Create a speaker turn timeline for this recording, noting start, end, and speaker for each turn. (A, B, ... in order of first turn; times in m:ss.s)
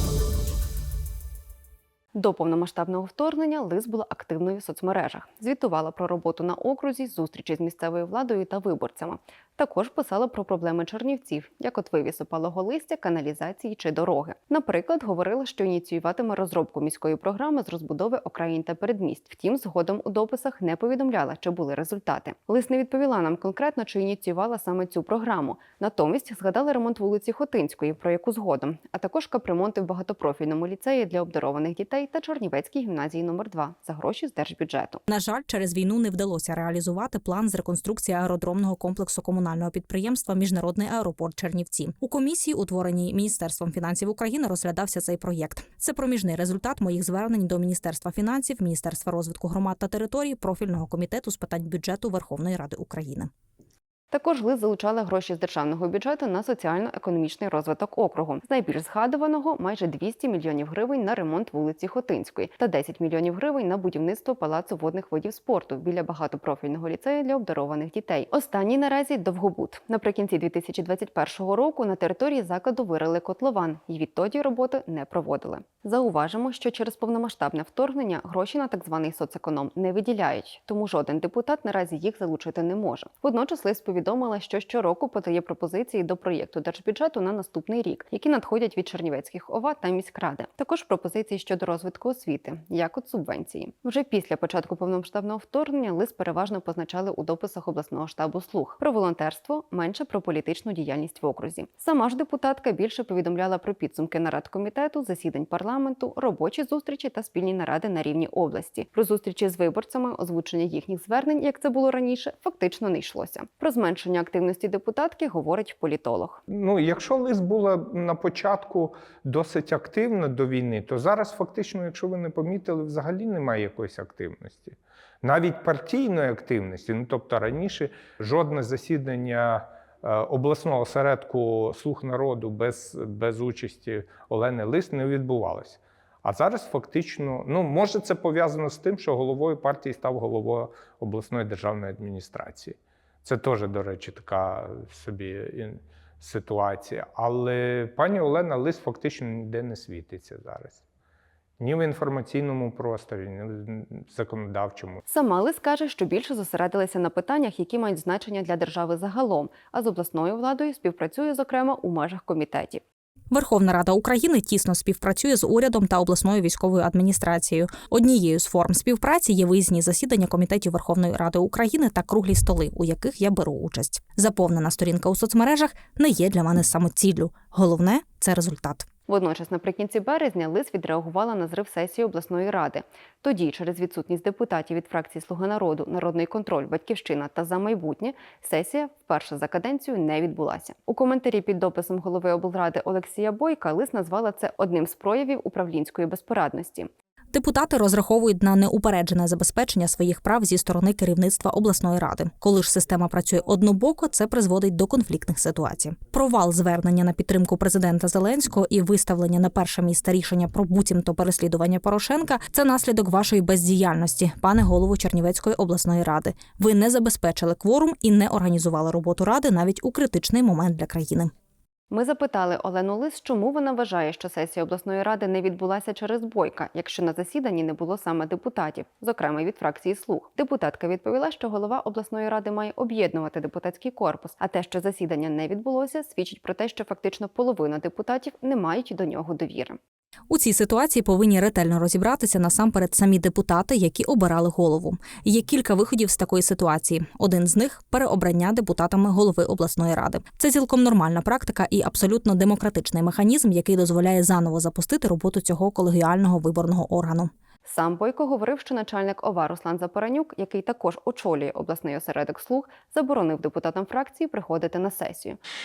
0:02.1-0:35.0 A
0:35.1-0:53.3 B
0:54.1-1:56.4 A
1:56.5-2:30.8 C
2:31.6-2:35.0 C
2:35.1-2:42.8 A
2:43.3-2:58.9 B
2:59.1-3:16.9 A
3:17.3-3:41.3 B
3:41.9-3:59.8 A
4:00.3-4:17.3 B
4:17.6-4:25.4 A